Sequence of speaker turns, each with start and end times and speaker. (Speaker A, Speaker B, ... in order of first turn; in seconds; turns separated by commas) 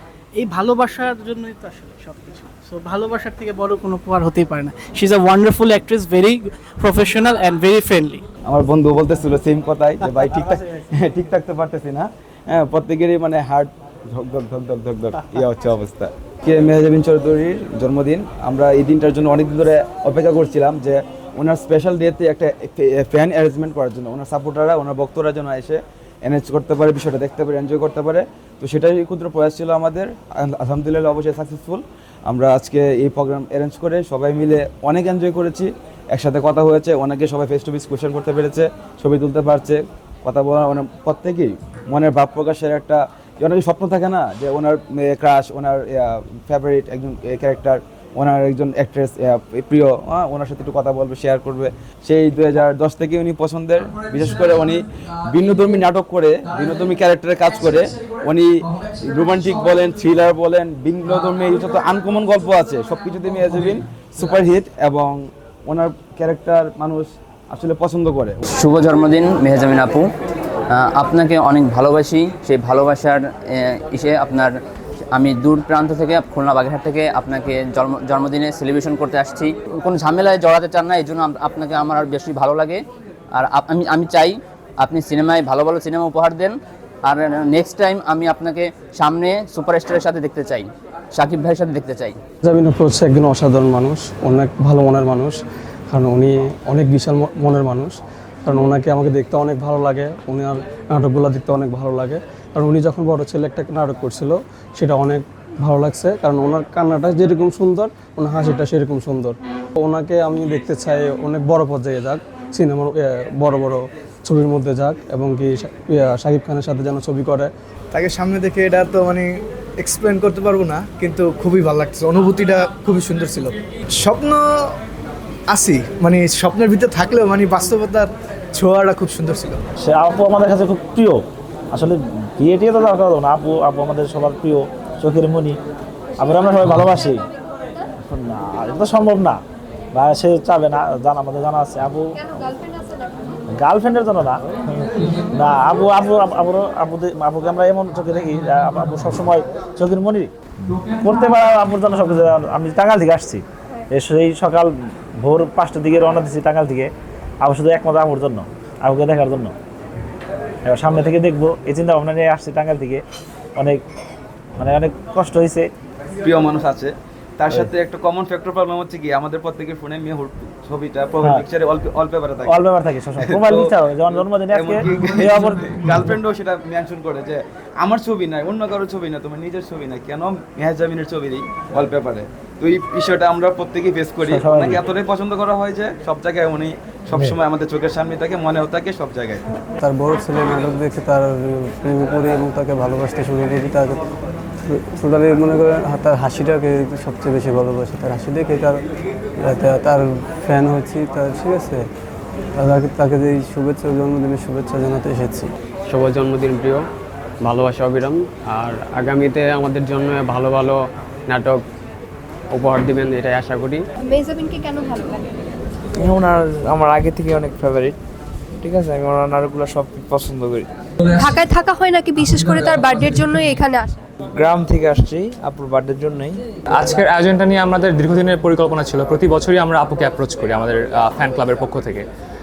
Speaker A: 0.4-8.2, Speaker B: 8.5-58.5, Speaker B: 59.0-68.4, Speaker C: 68.5-70.0, Speaker C: 70.7-74.5, Speaker C: 75.1-82.8, Speaker C: 83.3-92.2, Speaker D: 92.4-117.5, Speaker E: 117.9-119.2, Speaker E: 119.8-124.4, Speaker E: 125.5-129.6, Speaker F: 129.8-131.2, Speaker F: 131.7-135.6, Speaker F: 136.2-137.2, Speaker F: 138.0-139.4, Speaker F: 139.9-142.8, Speaker F: 143.6-150.3, Speaker F: 151.0-154.7, Speaker F: 155.2-156.9, Speaker F: 157.4-159.5, Speaker F: 160.7-163.0, Speaker F: 163.6-163.8, Speaker F: 164.6-165.7, Speaker B: 166.2-172.6, Speaker F: 172.5-175.8, Speaker B: 173.2-189.4, Speaker F: 184.2-184.8, Speaker G: 189.8-193.9, Speaker G: 194.7-198.8, Speaker G: 199.4-201.8, Speaker G: 202.6-205.4, Speaker H: 205.9-206.9, Speaker H: 207.4-211.6, Speaker H: 212.5-213.8, Speaker I: 214.0-215.2, Speaker J: 215.9-218.0, Speaker J: 218.6-220.7, Speaker I: 221.1-224.0, Speaker J: 224.2-226.4, Speaker K: 226.7-232.1